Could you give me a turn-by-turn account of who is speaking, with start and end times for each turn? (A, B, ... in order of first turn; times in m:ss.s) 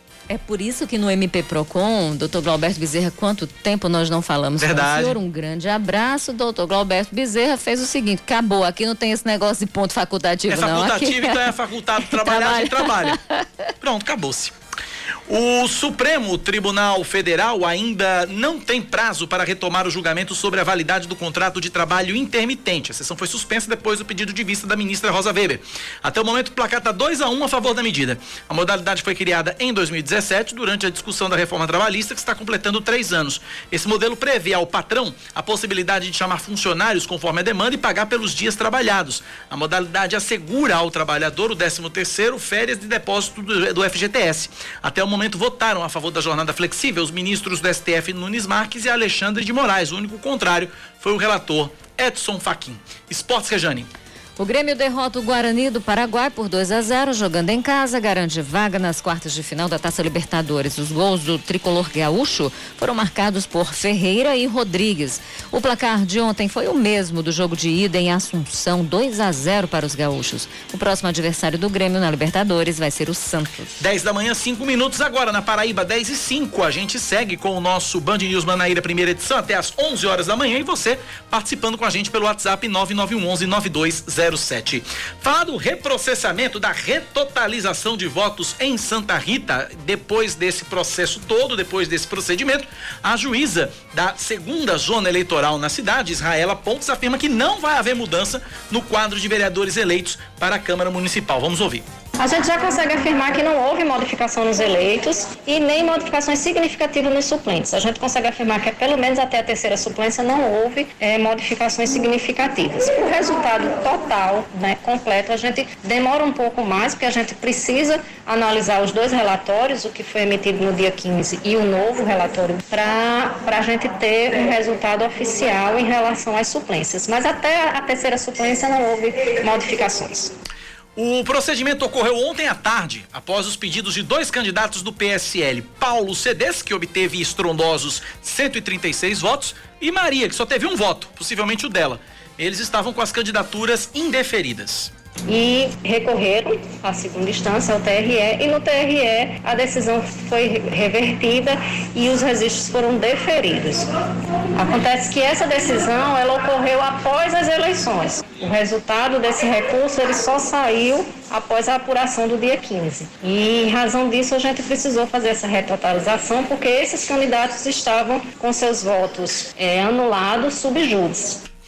0:00.3-0:11.4 A
0:04.6-0:05.2 B
0:10.5-0:13.2 B
0:12.1-0:13.4 A
0:13.8-0:14.5 B
0:15.3-0:53.9 B
0:54.4-1:13.8 A
1:13.8-1:41.8 B
1:42.2-2:10.3 C
2:11.0-2:24.9 B
2:25.3-2:33.9 C
2:34.5-2:51.4 C